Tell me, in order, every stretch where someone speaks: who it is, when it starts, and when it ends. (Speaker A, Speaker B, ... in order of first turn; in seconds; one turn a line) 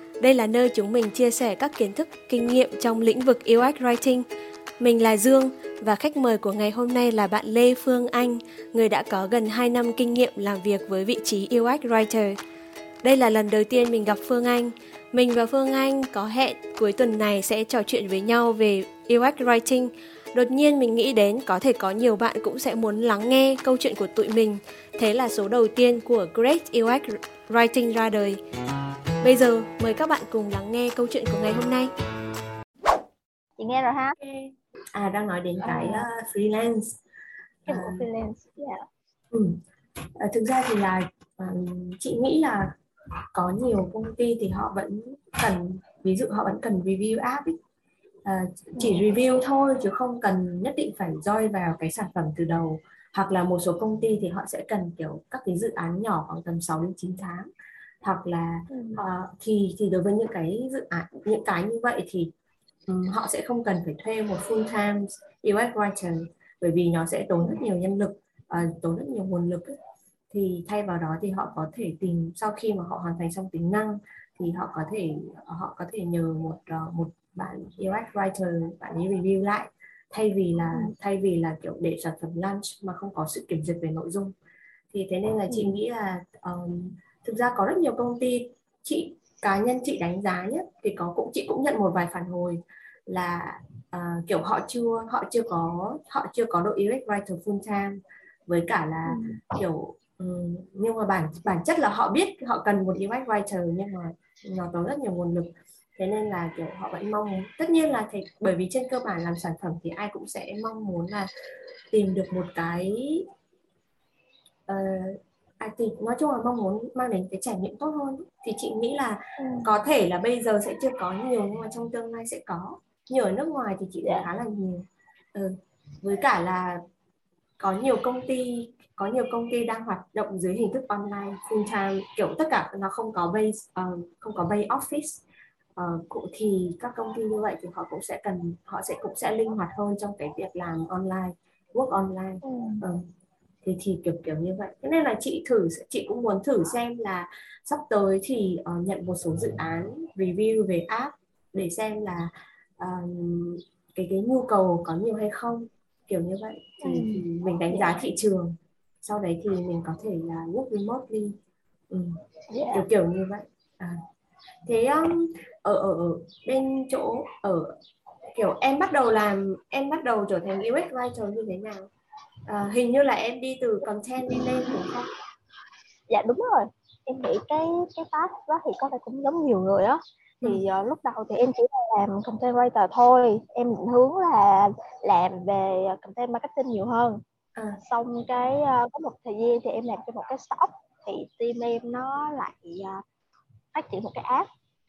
Speaker A: 0.2-0.5
Speaker B: 0.2-4.2
Speaker A: 1.0-4.1
Speaker A: 4.8-8.1
Speaker B: 4.8-12.3
Speaker A: 8.7-12.3
Speaker A: 13.0-14.6
Speaker B: 13.1-16.5
Speaker A: 15.1-26.9
Speaker B: 17.1-19.4
Speaker B: 20.4-27.0
Speaker A: 27.5-28.1
Speaker B: 27.5-28.4
Speaker B: 29.2-31.9
Speaker A: 29.9-30.3
Speaker C: 33.6-34.1
Speaker B: 34.2-37.0
Speaker C: 35.6-36.0
Speaker B: 37.7-38.0
Speaker C: 37.7-38.8
Speaker B: 39.3-39.6
Speaker B: 40.2-42.7
Speaker B: 43.3-47.5
Speaker B: 48.2-57.5
Speaker B: 58.0-62.3
Speaker C: 58.7-59.0
Speaker B: 62.9-69.8
Speaker B: 70.3-84.3
Speaker B: 84.9-111.3
Speaker C: 85.5-85.7
Speaker C: 99.0-99.4
Speaker B: 111.9-113.2
Speaker B: 114.7-126.8
Speaker C: 119.4-119.8
Speaker B: 127.6-135.2
Speaker B: 135.8-143.1
Speaker C: 142.4-142.8
Speaker B: 143.6-161.3
Speaker C: 156.8-157.9
Speaker B: 161.9-162.2
Speaker C: 162.5-162.8
Speaker B: 162.7-164.0
Speaker B: 164.7-167.7
Speaker B: 168.3-171.9
Speaker B: 172.5-175.1
Speaker C: 176.1-187.2
Speaker C: 187.8-193.0
Speaker C: 193.7-194.5